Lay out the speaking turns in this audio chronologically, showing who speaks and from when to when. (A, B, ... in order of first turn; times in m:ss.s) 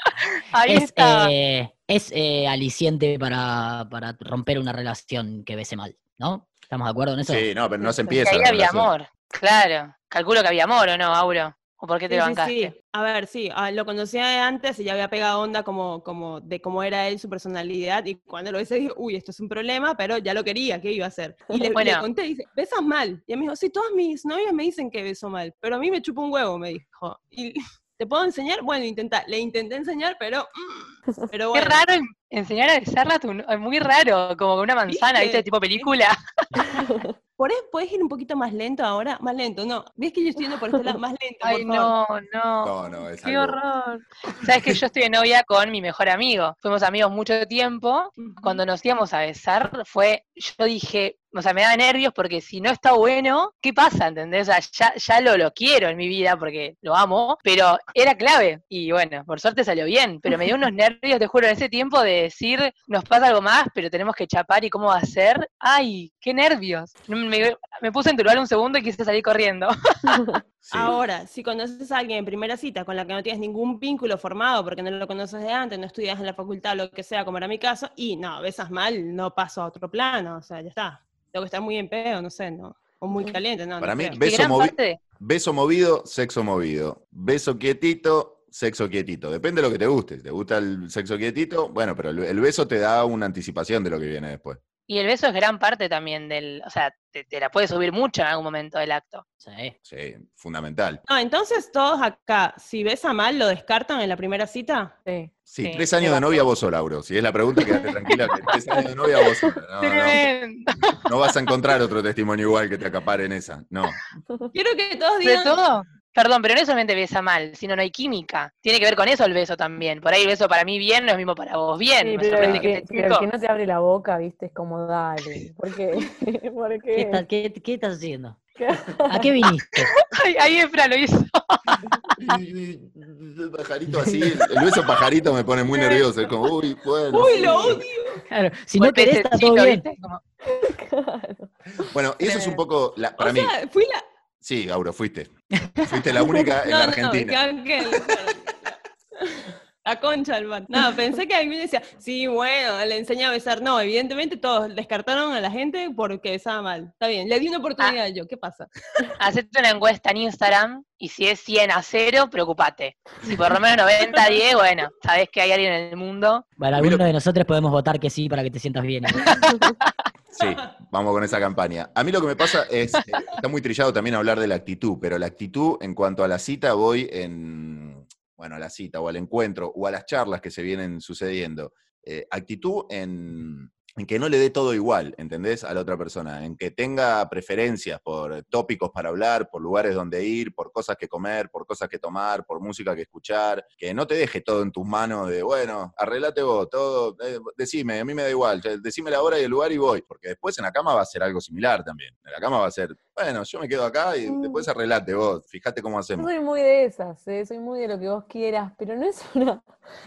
0:00.5-0:01.3 A
0:00.6-0:07.5 B
0:07.2-0:08.9 C
0:07.8-0:08.2 D
0:08.2-0:12.7 A
0:12.1-0:31.8 E
0:21.7-0:22.0 A
0:31.5-0:36.1 A
0:34.9-0:35.9 E
0:36.9-0:37.1 D
0:37.4-0:41.9 E
0:41.4-1:10.2 A
0:42.6-0:43.6 C
0:48.2-0:48.6 E
1:10.6-1:10.9 C
1:10.7-1:24.2 E
1:23.8-1:34.6 C
1:24.2-1:25.0 A
1:34.9-1:39.2 A
1:39.4-1:39.7 B
1:39.8-1:41.0 C
1:41.1-1:44.9 E
1:45.0-1:45.3 D
1:45.5-1:50.2 C
1:45.6-1:46.4 A
1:49.8-1:51.0 A
1:51.0-1:54.0 C
1:54.5-1:55.6 E
1:55.2-2:03.3 A
2:02.0-2:07.2 D
2:02.3-2:02.7 C
2:06.9-2:08.4 B
2:08.6-2:09.3 D
2:09.1-2:09.9 B
2:10.1-2:11.7 A
2:12.2-2:17.8 C
2:13.9-2:14.3 B
2:15.7-2:16.0 E
2:17.1-2:18.2 E
2:18.3-2:19.8 B
2:18.8-2:20.2 A
2:20.4-2:21.9 D
2:21.8-2:23.5 C
2:22.2-2:22.6 E
2:23.2-2:24.0 E
2:24.4-2:25.3 C
2:25.6-2:26.0 B
2:25.8-2:27.4 C
2:26.2-2:26.5 D
2:26.6-2:38.7 E
2:39.2-2:46.4 A
2:46.6-2:49.4 B
2:46.7-2:47.0 C
2:49.2-2:49.9 A
2:50.3-3:26.3 C
3:24.2-3:24.6 E
3:26.2-3:29.7 D